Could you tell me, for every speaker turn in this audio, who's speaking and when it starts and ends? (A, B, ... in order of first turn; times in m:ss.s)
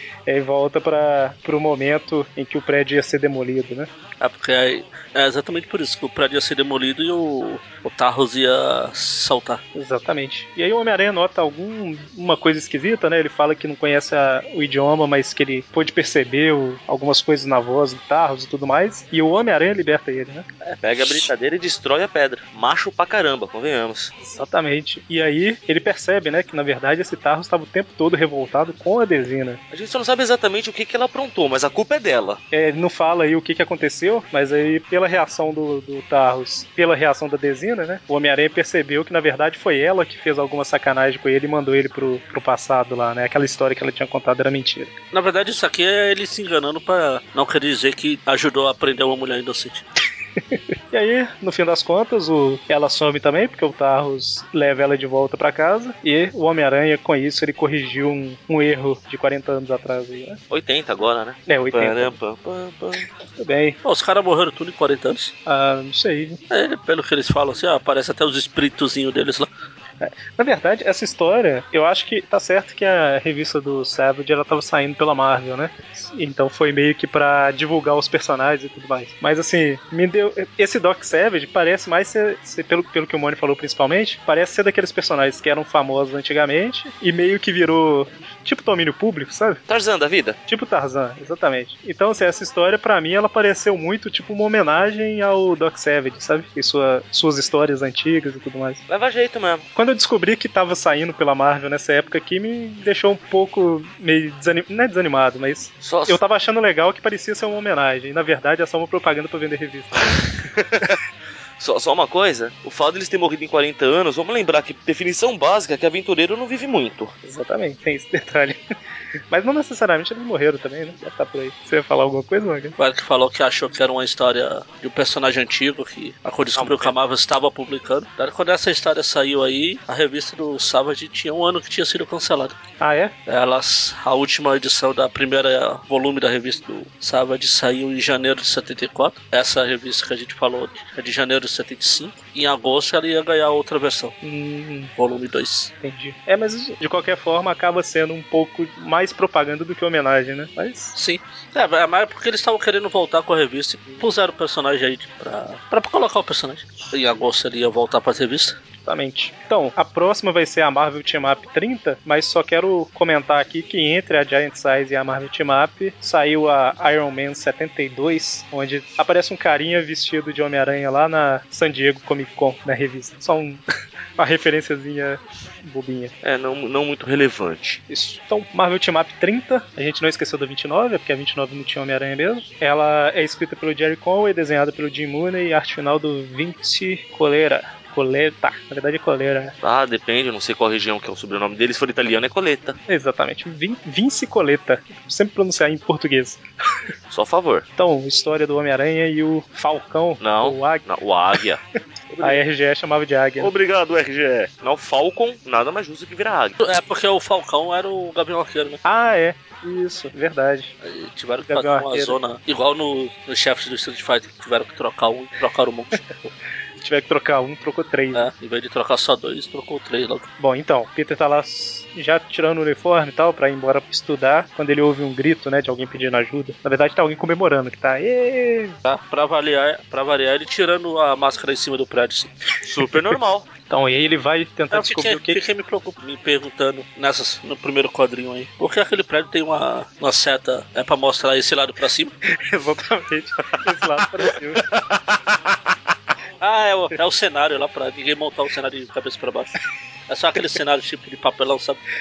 0:00.2-0:03.9 A
0:04.2-0:09.6 B
0:09.7-0:20.4 A
0:20.8-0:24.1 C
0:21.0-0:21.3 B
0:24.2-0:29.6 A
0:29.7-0:32.4 C
0:32.5-0:44.9 A
0:45.1-0:49.8 B
0:50.9-1:00.4 A
1:00.5-1:03.0 C
1:01.5-1:02.2 A
1:03.4-1:03.8 A
1:03.8-1:05.3 B
1:05.4-1:06.4 A
1:06.5-1:09.5 B
1:10.0-1:29.6 A
1:29.7-1:30.4 C
1:30.5-1:38.8 A
1:38.9-1:39.6 C
1:39.7-1:50.2 A
1:45.8-1:46.2 C
1:50.5-1:51.0 C
1:51.6-1:57.1 C
1:57.2-1:58.6 A
1:59.3-2:02.8 A
2:02.8-2:12.6 B
2:06.5-2:06.9 C
2:12.8-2:13.1 A
2:13.3-2:24.1 B
2:24.2-2:24.9 A
2:25.0-2:25.7 B
2:25.8-2:30.9 A
2:30.9-2:38.6 B
2:38.8-2:53.6 A
2:54.2-2:56.1 A
2:56.2-2:57.8 C
2:57.9-3:09.5 A
3:09.6-3:12.8 C
3:12.9-3:16.4 A
3:17.1-3:17.6 C
3:17.8-3:20.8 A
3:20.2-3:22.4 C
3:22.2-3:23.5 A
3:23.4-3:26.6 C
3:26.6-3:28.8 B
3:28.8-3:30.7 A
3:30.8-3:36.3 B
3:31.5-3:32.2 A
3:36.8-3:38.3 A
3:38.1-3:40.3 B
3:40.4-3:48.8 A
3:48.8-3:52.3 B
3:52.6-3:53.5 C
3:53.7-3:55.4 A
3:54.7-4:02.1 B
4:02.3-4:04.6 A
4:06.4-4:09.6 B
4:10.1-4:11.8 B